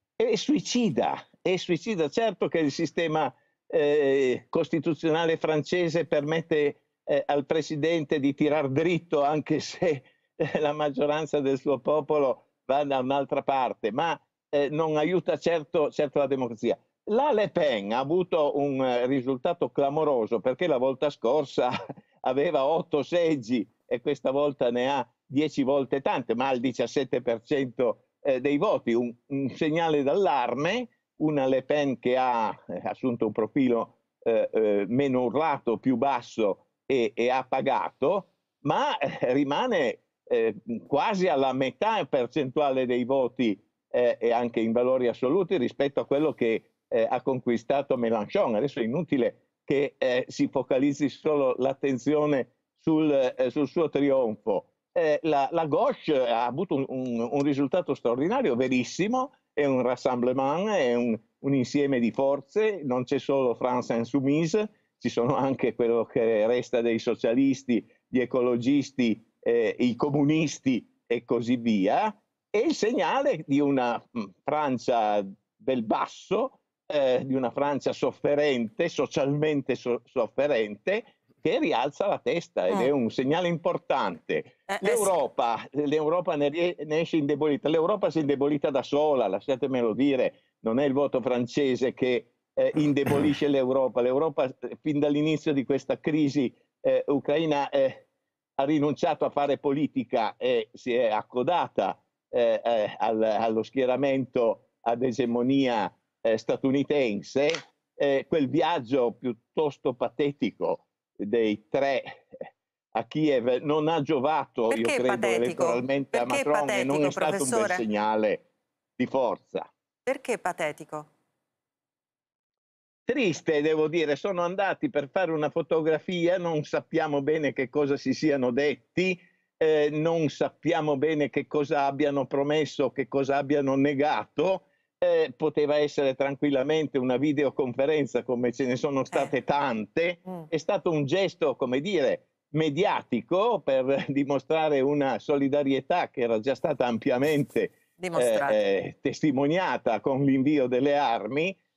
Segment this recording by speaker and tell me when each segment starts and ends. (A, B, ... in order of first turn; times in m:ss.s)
0:00.2-1:38.0 A
1:24.7-1:25.1 B
1:38.6-1:52.2 A
1:52.9-1:58.4 A
1:54.7-1:57.8 B
1:59.0-1:59.7 A
2:00.0-2:01.1 B
2:03.0-2:31.6 A
2:28.0-2:28.6 B